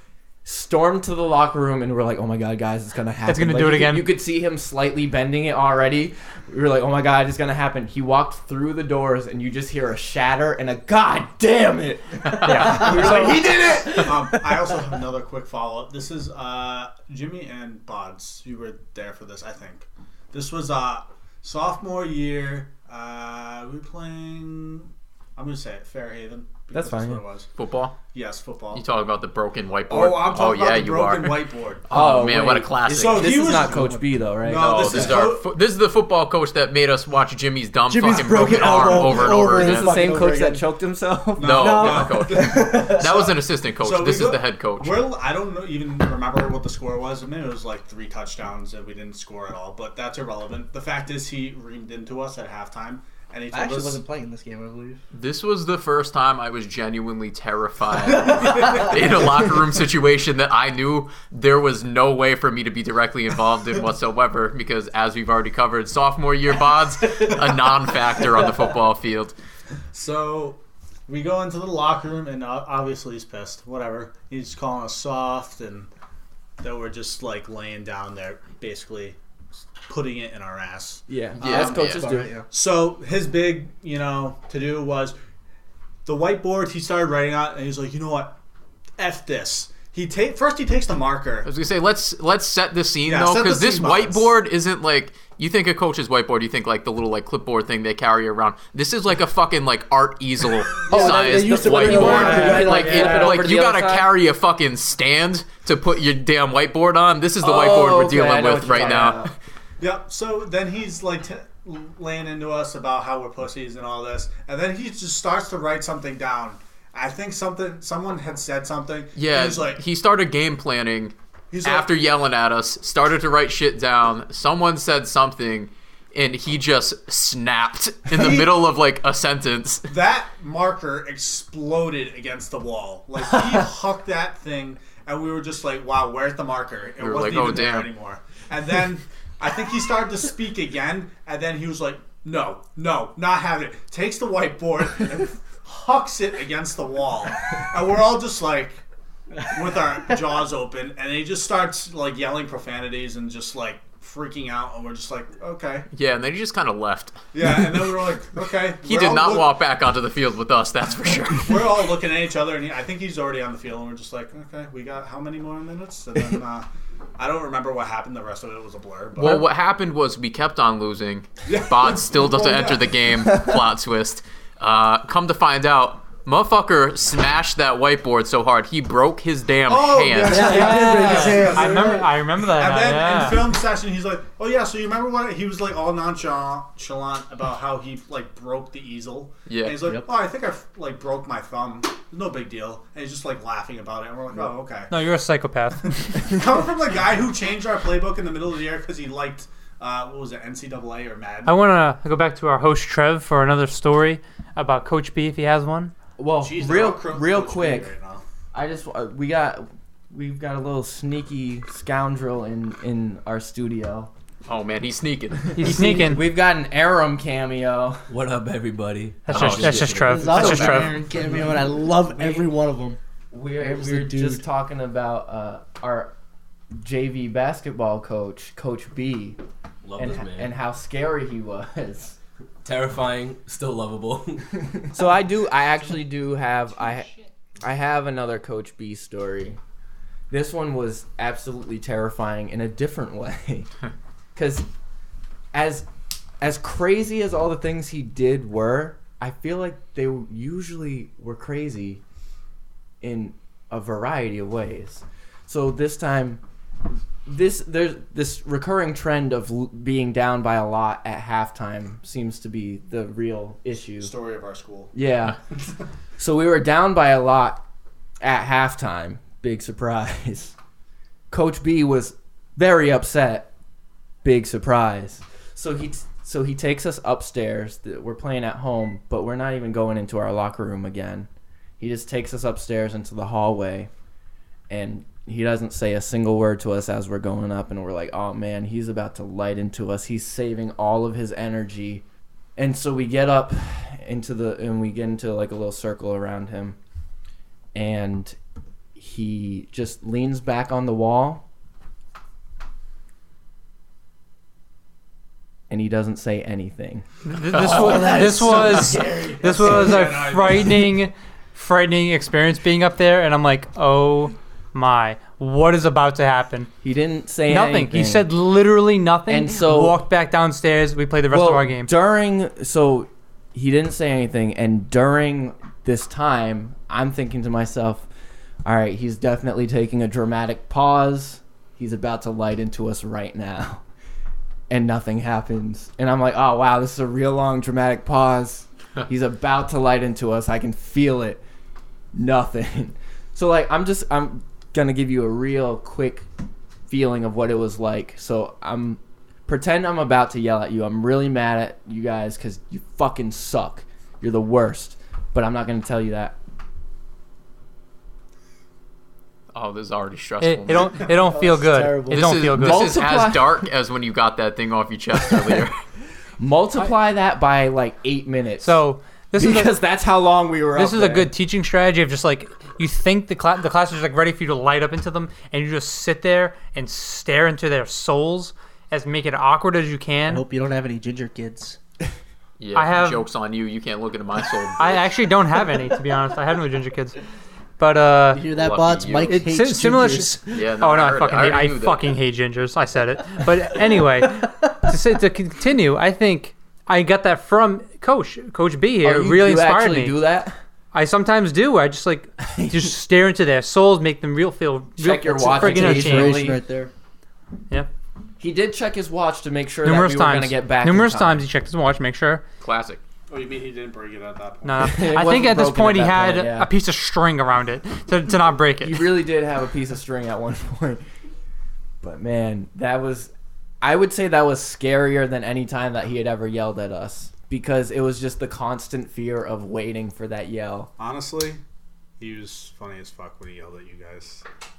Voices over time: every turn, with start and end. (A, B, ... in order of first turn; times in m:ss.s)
0:00.4-0:14.3 A
0:03.3-0:04.1 B
0:12.4-0:12.8 C
0:12.4-0:13.4 B
0:12.7-0:13.4 D
0:13.0-0:13.4 E
0:13.9-0:27.5 E
0:26.7-0:27.2 A
0:27.6-0:28.0 C
0:28.1-0:28.8 E
0:28.7-0:33.6 C
0:29.9-0:32.2 E
0:31.9-0:35.2 A
0:32.8-0:35.5 E
0:34.5-0:39.9 C
0:37.9-0:40.6 D
0:38.3-0:39.0 E
0:38.6-0:41.7 A
0:41.4-0:54.0 E
0:41.4-0:45.0 C
0:41.6-0:43.3 D
0:53.5-0:55.0 D
0:55.1-1:09.3 C
0:58.2-0:58.9 D
1:09.9-1:15.9 E
1:16.6-1:19.2 E
1:19.9-1:25.1 E
1:21.1-1:22.3 A
1:21.4-1:22.0 C
1:21.4-1:22.5 D
1:26.0-1:28.4 E
1:29.0-1:31.5 E
1:31.4-1:49.2 C
1:33.0-1:34.3 E
1:40.9-1:43.4 D
1:40.9-1:44.1 A
1:42.0-1:42.8 B
1:47.4-1:49.3 A
1:49.8-1:59.8 E
1:59.2-2:09.9 C
2:01.5-2:01.9 E
2:08.1-2:08.6 E
2:09.9-2:28.8 E
2:17.0-2:17.9 C
2:29.5-2:35.9 E
2:35.9-2:37.2 C
2:37.3-2:39.5 E
2:38.8-2:41.7 C
2:41.4-2:46.6 E
2:47.2-2:49.4 E
2:49.2-3:00.6 C
2:51.5-2:53.0 E
2:59.7-3:14.9 E
3:00.2-3:02.0 D
3:00.4-3:03.4 B
3:09.5-3:09.8 C
3:14.9-3:16.2 B
3:16.1-3:21.6 E
3:21.4-3:25.9 B
3:26.2-3:27.9 A
3:26.4-3:28.2 E
3:28.5-3:34.1 A
3:34.5-3:35.7 C
3:35.6-3:36.2 B
3:35.6-3:38.0 A
3:38.1-3:41.0 F
3:39.3-3:41.0 B
3:39.3-3:40.9 C
3:40.1-3:43.0 D
3:42.2-3:42.4 A
3:43.3-3:46.1 A
3:43.6-3:44.4 D
3:46.8-3:49.4 A
3:49.8-3:50.5 F
3:50.0-3:52.2 A
3:52.6-3:54.9 F
3:54.9-3:59.6 A
4:00.3-4:03.7 A
4:04.3-4:04.6 A
4:05.5-4:05.9 A
4:06.4-4:12.0 A
4:13.0-4:16.4 A
4:17.2-4:24.1 A
4:24.0-4:24.9 E
4:24.9-4:25.4 A
4:26.2-4:27.6 A
4:28.2-4:30.5 A
4:31.3-4:33.5 A
4:34.2-4:43.9 A
4:44.7-4:52.0 A
4:52.6-4:56.8 A
4:57.7-4:58.4 A
4:59.0-5:01.4 A
5:05.7-5:07.0 A
5:07.3-5:16.7 B
5:07.5-5:10.2 D
5:09.4-5:10.9 E
5:16.8-5:18.3 A
5:17.5-5:21.9 B
5:19.3-5:20.0 A
5:21.3-5:28.1 A
5:28.6-5:33.8 A
5:34.7-5:41.4 A
5:42.1-5:46.3 A
5:46.9-5:56.4 A
5:59.5-6:01.1 C
6:00.4-6:02.9 B
6:01.1-6:02.3 D
6:02.1-6:05.8 C
6:02.5-6:03.6 A
6:05.3-6:05.7 A
6:06.4-6:08.8 A
6:08.6-6:09.7 B
6:09.4-6:11.3 A
6:10.8-6:20.4 B
6:20.3-6:21.8 D
6:22.6-6:24.9 C
6:22.7-6:23.2 B
6:24.8-6:27.2 B
6:27.8-6:28.4 B
6:28.3-6:30.5 D
6:28.6-6:29.4 C
6:29.3-6:40.2 B
6:30.5-6:32.0 C
6:39.0-6:40.6 A
6:40.9-6:46.4 B
6:42.5-6:42.8 A
6:45.0-6:46.6 A
6:45.4-6:46.9 D
6:48.4-6:51.4 A
6:49.8-6:52.4 B
6:52.6-6:53.0 C
6:53.3-6:55.1 E
6:54.6-6:59.0 B
6:54.8-6:56.7 A
6:58.8-7:01.0 A
7:02.0-7:10.9 A
7:11.0-7:11.6 E
7:12.2-7:14.4 E